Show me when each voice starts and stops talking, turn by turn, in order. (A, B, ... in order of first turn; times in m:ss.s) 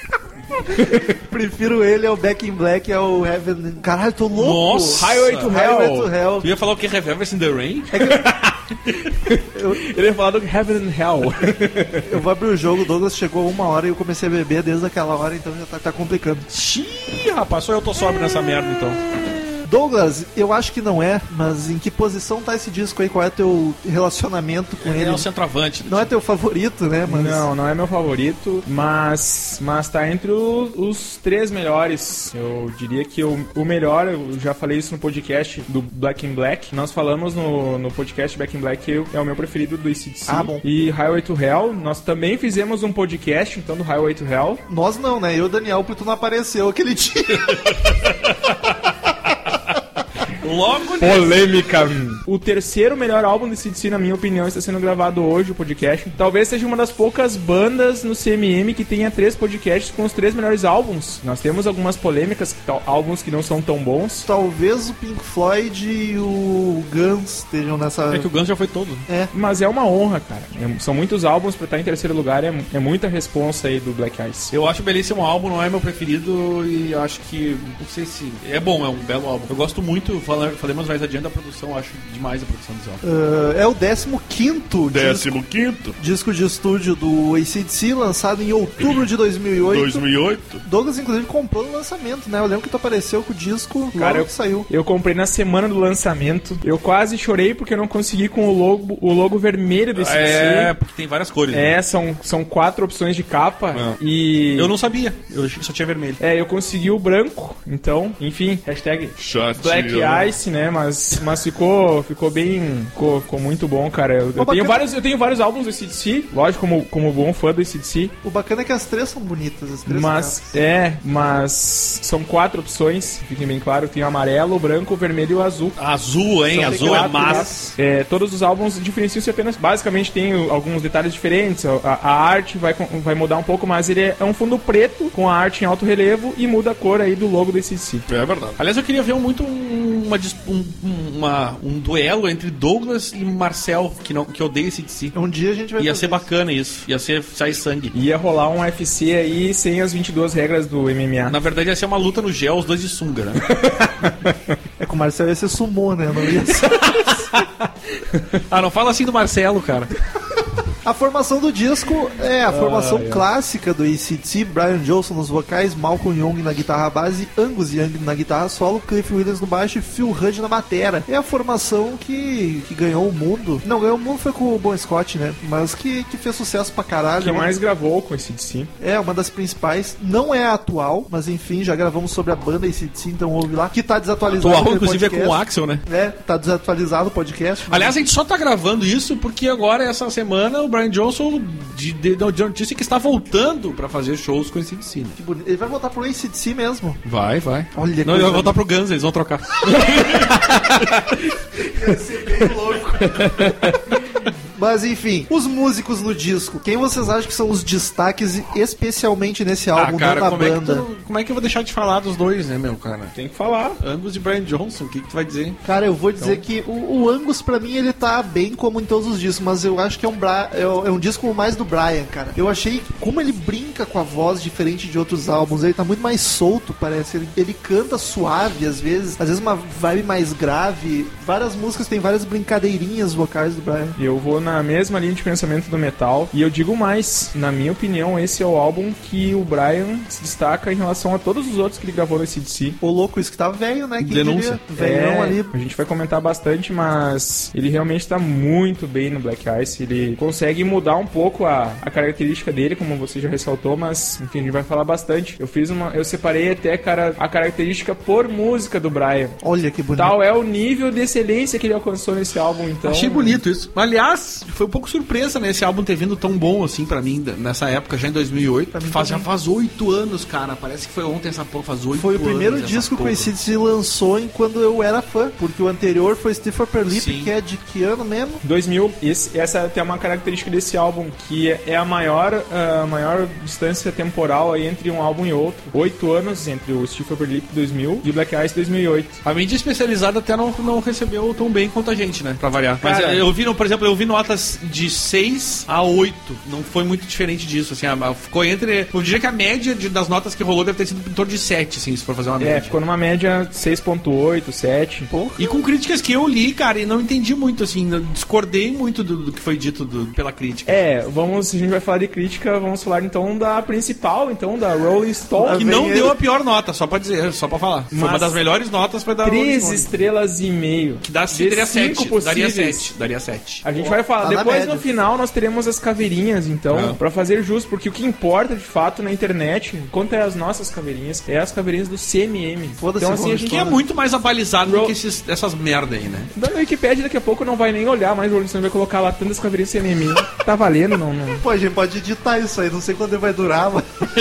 0:00.6-0:06.5 A
0:04.4-0:05.5 B
0:04.9-0:06.1 C
0:06.4-0:08.0 B
0:07.9-0:08.3 A
0:08.0-0:12.1 C
0:09.5-0:09.8 A
0:12.0-0:16.5 A
0:16.5-0:19.0 B
0:19.6-0:25.3 A
0:24.8-0:26.1 B
0:25.8-0:27.5 A
0:27.1-0:44.6 C
0:40.3-0:40.6 A
0:44.7-0:47.6 A
0:50.4-0:51.4 B
0:51.0-1:04.3 C
1:04.2-1:08.3 A
1:08.1-1:09.0 B
1:09.3-1:14.5 C
1:14.5-1:23.0 B
1:23.0-1:25.4 A
1:24.9-1:26.0 D
1:26.0-1:30.0 A
1:29.6-1:30.6 D
1:30.6-1:34.7 A
1:33.9-1:40.7 C
1:39.9-1:41.7 B
1:41.5-1:44.7 C
1:44.5-1:46.2 B
1:46.2-1:58.1 C
1:49.2-1:50.3 D
1:54.4-1:54.8 A
1:58.2-2:00.6 A
1:59.9-2:05.8 C
2:05.8-2:07.5 B
2:06.5-2:07.7 A
2:06.5-2:18.0 C
2:18.1-2:25.2 B
2:25.1-2:26.3 A
2:25.8-2:27.9 B
2:27.9-2:31.4 C
2:31.3-2:33.4 B
2:33.4-2:34.5 C
2:34.8-2:37.2 A
2:36.8-2:38.4 C
2:38.5-2:39.9 B
2:40.8-2:57.5 A
2:42.5-2:43.2 C
2:57.2-2:58.7 C
2:58.8-3:08.0 A
3:04.3-3:05.8 B
3:07.7-3:15.2 B
3:15.2-3:17.0 A
3:17.0-3:20.3 B
3:17.7-3:18.6 A
3:19.7-3:21.3 C
3:21.6-3:23.8 A
3:23.0-3:24.0 C
3:24.5-3:30.8 A
3:29.8-3:33.2 B
3:33.2-3:33.8 C
3:33.8-3:35.6 B
3:35.6-3:54.0 A
3:36.2-3:36.4 C
3:54.0-4:02.8 C
4:02.8-4:05.5 A
4:04.0-4:04.6 B
4:04.8-4:19.4 C
4:19.4-4:20.2 A
4:19.9-4:23.4 C
4:22.8-4:33.3 B
4:28.7-4:29.3 A
4:31.9-4:38.4 A
4:36.9-4:37.3 B
4:38.4-4:49.2 C
4:49.2-5:02.7 B
4:52.8-4:53.2 C
5:02.4-5:05.1 C
5:05.1-5:05.6 A
5:05.4-5:10.8 B
5:10.7-5:15.6 C
5:15.4-5:16.1 A
5:15.5-5:19.8 B
5:17.9-5:18.4 C
5:19.2-5:22.9 C
5:21.0-5:23.6 B
5:23.6-5:33.7 C
5:23.8-5:24.8 A
5:26.7-5:27.0 B
5:32.8-5:33.8 A
5:33.4-5:36.3 B
5:34.6-5:35.0 C
5:36.3-5:41.4 C
5:41.4-5:44.1 A